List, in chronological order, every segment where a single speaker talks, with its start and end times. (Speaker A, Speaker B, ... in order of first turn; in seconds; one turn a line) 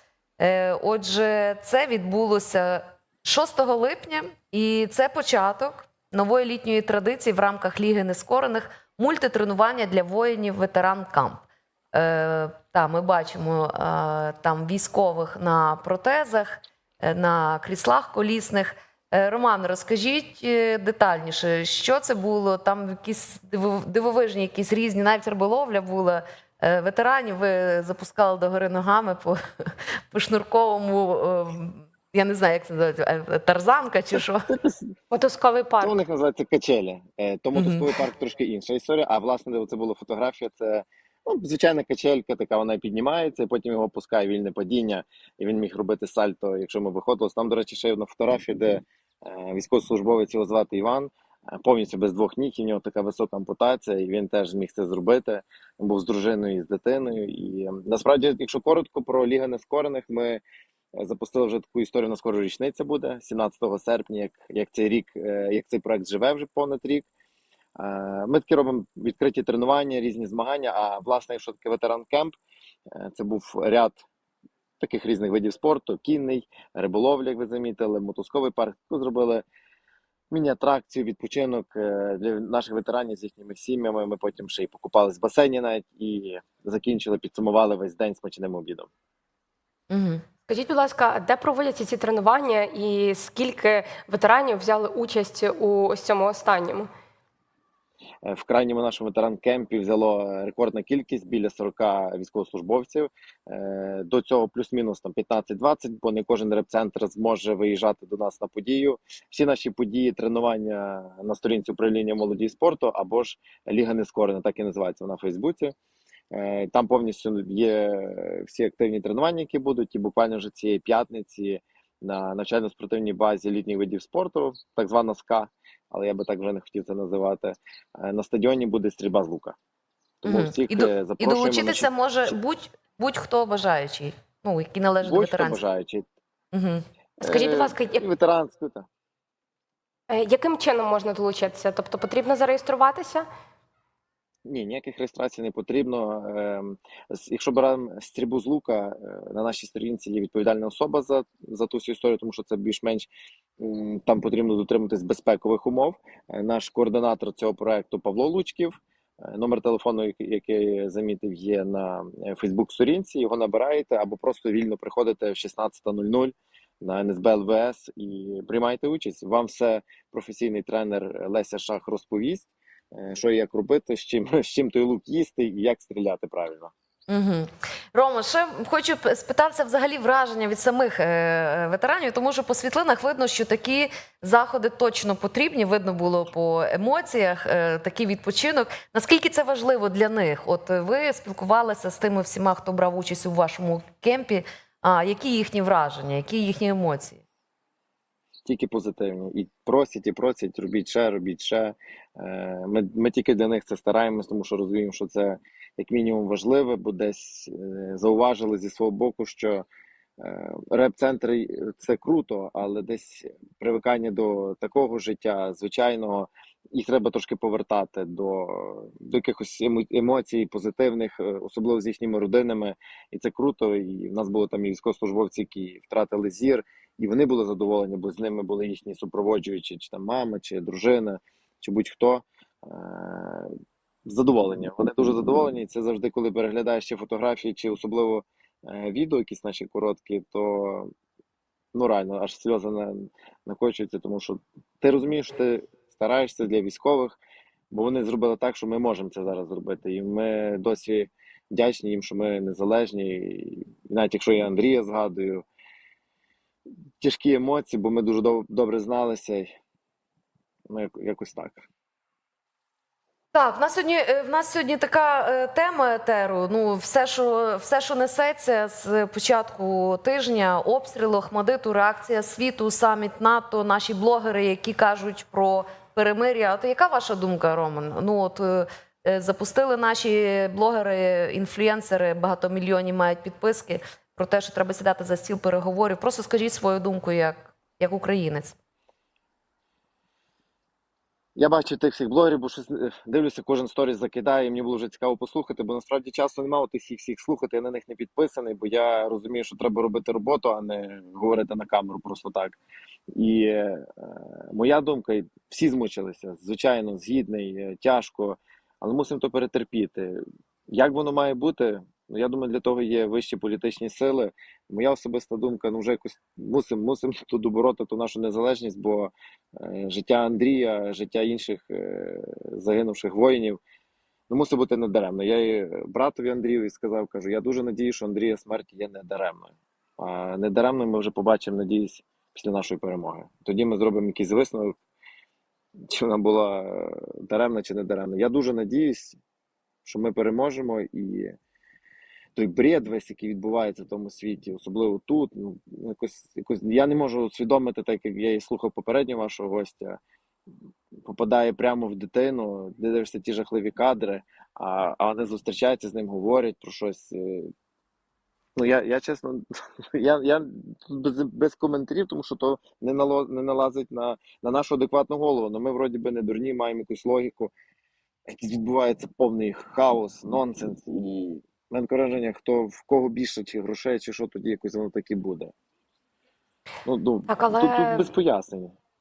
Speaker A: 0.4-34.5
Speaker B: 34.2-35.0
Speaker C: 35.1-36.0
Speaker B: 35.8-60.4
Speaker A: 37.5-38.0
Speaker B: 61.0-67.1
Speaker B: 67.8-72.3
Speaker B: 72.9-74.0
Speaker B: 74.8-79.4
Speaker B: 80.3-88.9
Speaker A: 89.9-90.2
Speaker C: 90.5-96.9
Speaker B: 98.2-115.8
Speaker B: 116.3-129.6
Speaker B: 130.2-131.9
Speaker A: 130.2-135.6
Speaker B: 135.0-136.1
Speaker A: 136.5-136.8
Speaker C: 137.2-138.0
Speaker B: 137.2-138.9
Speaker C: 140.1-143.3
Speaker B: 144.4-176.7
Speaker A: 177.1-197.2
Speaker B: 198.4-209.7
Speaker B: 210.2-233.5
Speaker B: 234.1-240.9
Speaker B: 241.7-247.2
Speaker B: 247.7-255.4
Speaker B: 257.0-259.5
Speaker B: 260.7-261.6
Speaker A: 263.3-288.6
Speaker B: 291.4-302.6
Speaker B: 303.1-310.2
Speaker B: 310.7-323.6
Speaker B: 324.3-334.8
Speaker B: 335.9-339.2
Speaker B: 339.9-341.4
Speaker B: 342.4-350.0
Speaker B: 351.1-357.5
Speaker B: 358.6-367.5
Speaker B: 368.3-375.5
Speaker B: 376.9-378.7
Speaker C: 377.3-378.1